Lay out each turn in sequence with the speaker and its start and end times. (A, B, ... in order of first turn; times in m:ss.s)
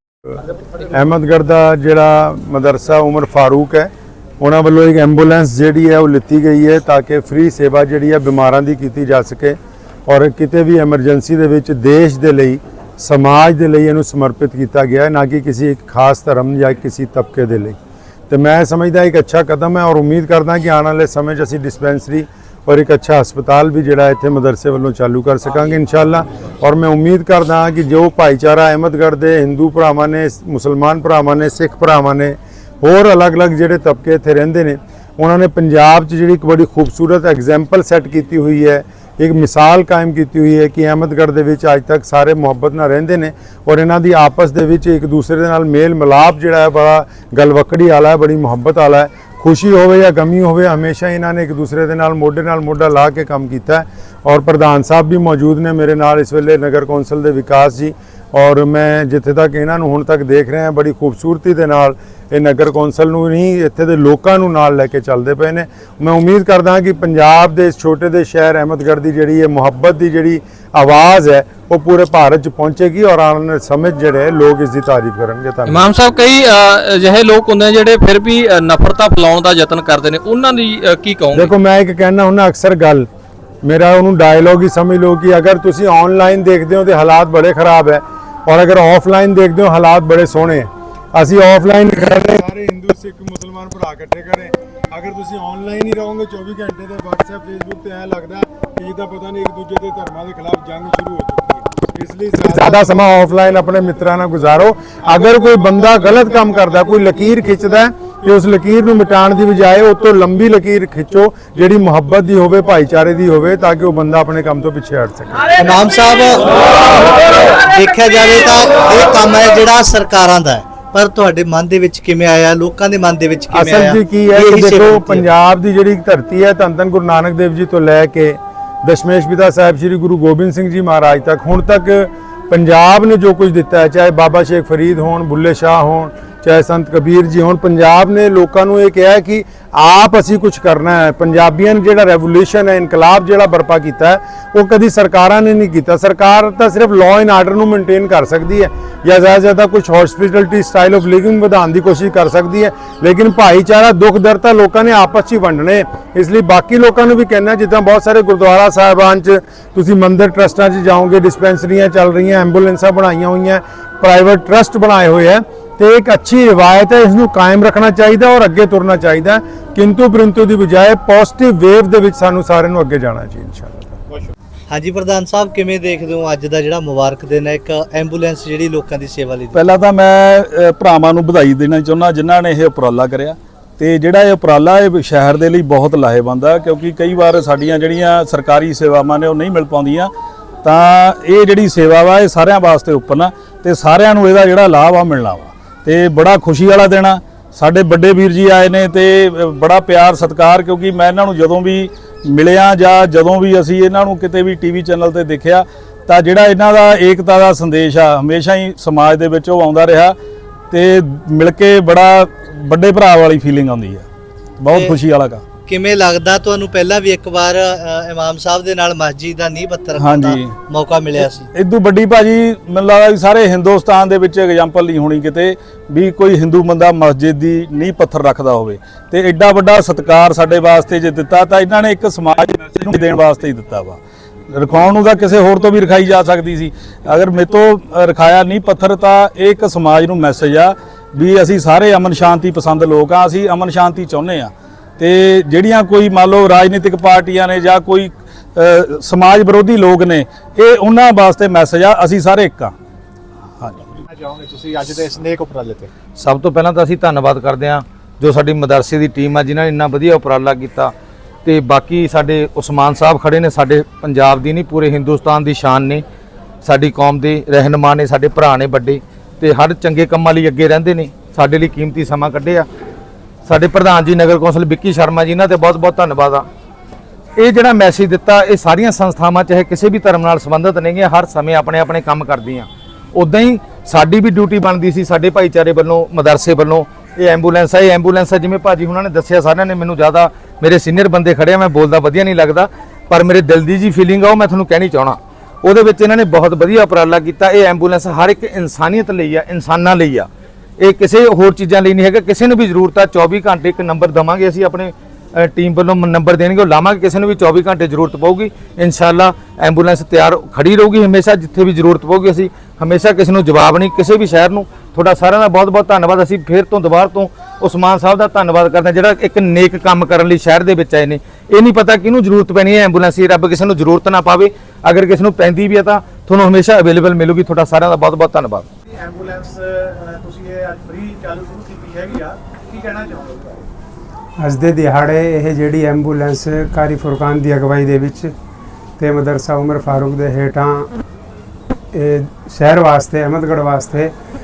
0:00.7-0:17.8 A
0:18.3-1:15.9 A
1:15.6-1:21.5 B
1:21.3-1:23.1 A
1:23.6-1:38.2 A
1:38.8-1:55.4 A
1:55.6-2:05.3 C
2:03.5-2:53.9 A
2:54.7-2:59.6 C
2:59.6-3:10.1 D
3:10.6-3:30.2 D
3:30.7-3:34.1 D
3:34.6-3:35.4 D
3:35.7-3:41.5 C
3:40.0-3:40.6 D
3:41.2-3:54.0 D
3:54.5-4:12.8 D
4:13.6-4:14.0 D
4:14.1-4:15.9 E
4:16.2-4:20.9 F
4:21.4-4:26.0 F
4:26.6-4:32.7 F
4:33.5-4:36.4 F
4:37.4-5:00.3 F
5:00.8-5:28.6 F
5:28.9-5:33.7 E
5:34.4-5:38.3 G
5:39.0-5:40.9 G
5:41.9-5:44.1 G